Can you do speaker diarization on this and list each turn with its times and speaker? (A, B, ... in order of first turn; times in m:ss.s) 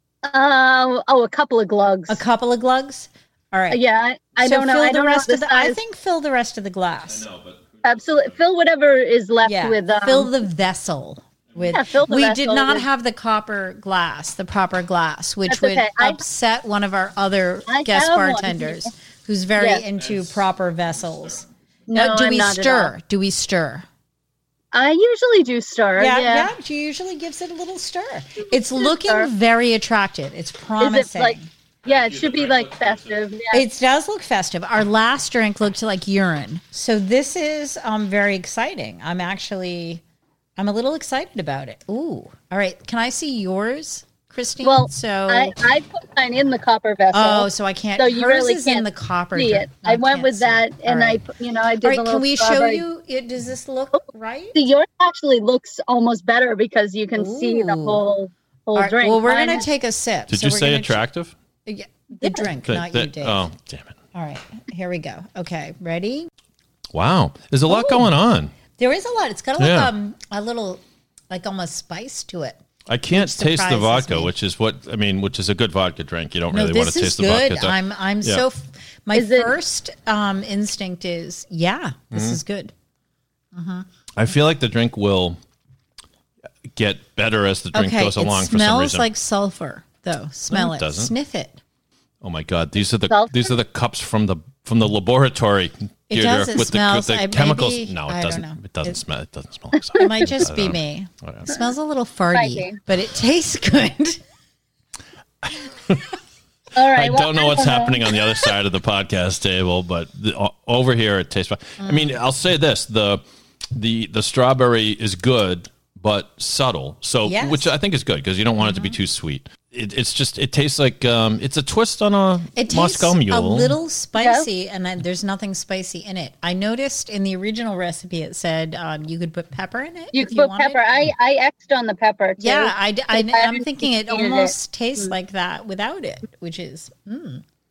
0:00.2-0:02.2 A
0:02.1-0:03.8 B
0:03.7-0:05.8 A
0:04.4-0:07.2 B
0:07.1-0:08.4 C
0:07.8-0:10.3 A
0:09.4-0:23.9 B
0:11.7-0:12.8 A
0:15.5-0:16.2 A
0:17.7-0:18.9 A
0:19.6-0:19.8 A
0:20.0-0:20.4 C
0:21.9-0:22.9 A
0:24.7-0:26.5 A
0:26.0-0:31.5 B
0:28.4-0:29.3 A
0:30.8-0:33.6 A
0:31.8-0:33.2 C
0:33.5-0:40.0 B
0:40.6-0:45.6 B
0:44.6-0:52.8 A
0:47.1-0:51.2 B
0:51.8-0:54.6 B
0:54.5-0:59.7 A
0:57.2-0:58.0 B
0:58.8-1:01.0 B
1:00.3-1:01.3 C
1:01.7-1:03.5 B
1:02.6-1:04.0 C
1:04.1-1:06.3 B
1:06.9-1:08.5 C
1:07.7-1:08.1 B
1:08.8-1:12.6 B
1:09.6-1:09.9 C
1:12.9-1:18.4 C
1:13.1-1:14.3 B
1:16.5-1:22.7 B
1:19.1-1:19.5 A
1:22.1-1:22.4 C
1:23.5-1:23.9 B
1:24.2-1:25.4 C
1:26.7-1:29.1 C
1:27.7-1:31.6 B
1:30.5-1:31.1 C
1:32.2-1:41.5 C
1:33.1-1:33.6 A
1:36.1-1:39.0 B
1:40.0-1:44.2 B
1:42.3-1:42.8 A
1:45.4-1:46.1 C
1:46.8-1:48.2 A
1:46.9-1:53.2 C
1:51.8-1:52.1 B
1:53.7-2:03.7 C
1:57.2-1:57.7 B
1:58.6-1:59.0 B
2:02.6-2:10.8 B
2:04.2-2:04.4 A
2:10.1-2:15.1 A
2:12.4-2:17.4 B